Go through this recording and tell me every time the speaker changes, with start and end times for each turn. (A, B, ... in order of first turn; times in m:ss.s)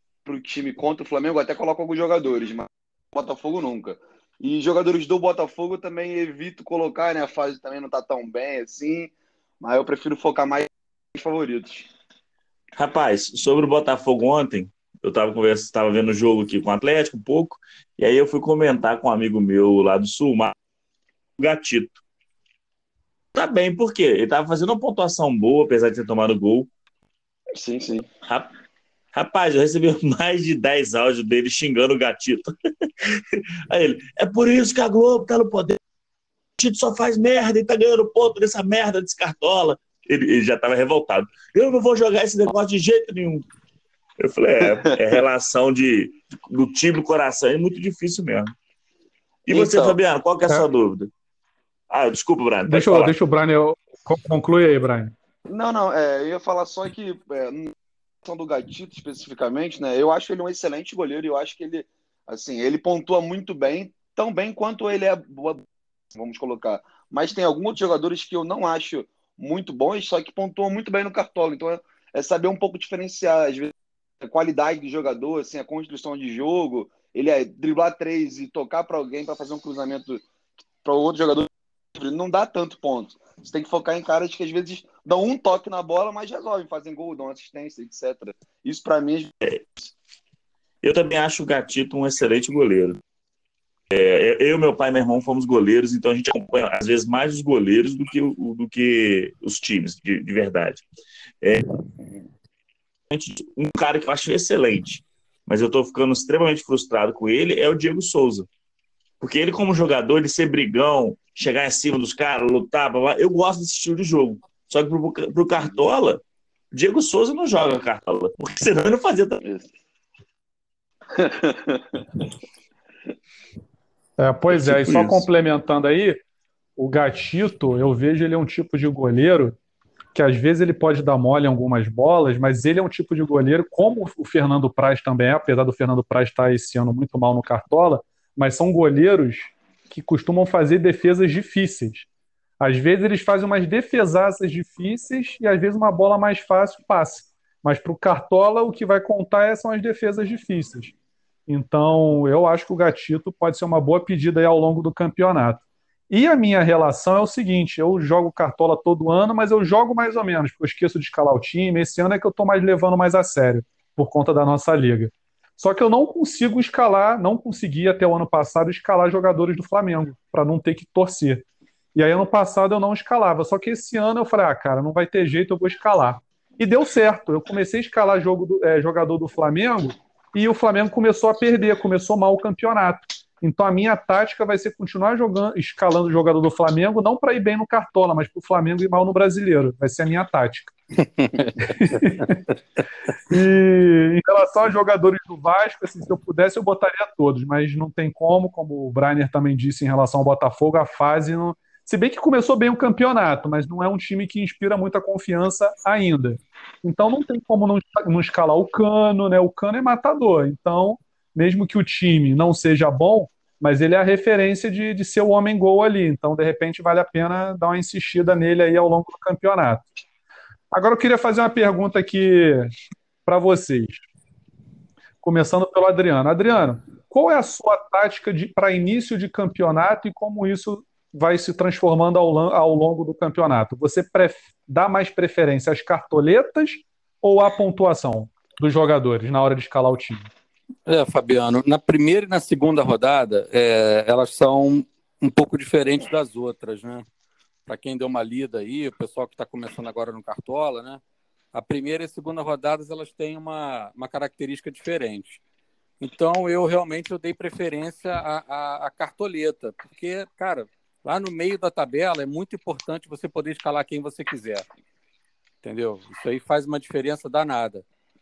0:00.2-0:11.9 A
0:12.8-0:20.5 B
0:21.4-0:22.0 B
0:23.3-0:26.7 B
0:27.5-0:28.1 A
0:29.1-0:35.8 B
0:36.6-0:43.5 B
0:44.2-0:48.5 B
0:44.6-0:45.2 A
0:49.5-0:51.1 B
0:49.5-0:50.0 A
0:51.9-0:53.1 B
0:52.7-0:55.1 C
0:55.5-1:20.2 A
1:20.8-1:29.9 A
1:30.8-1:33.0 B
1:33.9-1:40.8 B
1:41.4-1:41.7 B
1:43.1-1:48.5 B
1:49.2-1:59.4 B
1:59.4-1:59.7 A
2:01.1-2:02.2 A
2:04.2-2:06.2 C
2:04.5-2:05.2 B
2:06.8-2:09.6 C
2:10.1-2:22.1 C
2:22.6-2:30.9 C
2:31.5-3:10.7 C
3:11.2-3:11.6 D
3:11.6-3:12.4 C
3:13.3-3:39.9 C
3:40.7-3:42.7 C
3:43.2-3:44.0 C
3:45.2-4:00.3 C
4:00.9-4:07.0 D
4:07.7-4:11.0 D
4:11.5-4:15.4 D
4:16.0-4:24.6 D
4:25.6-4:27.8 D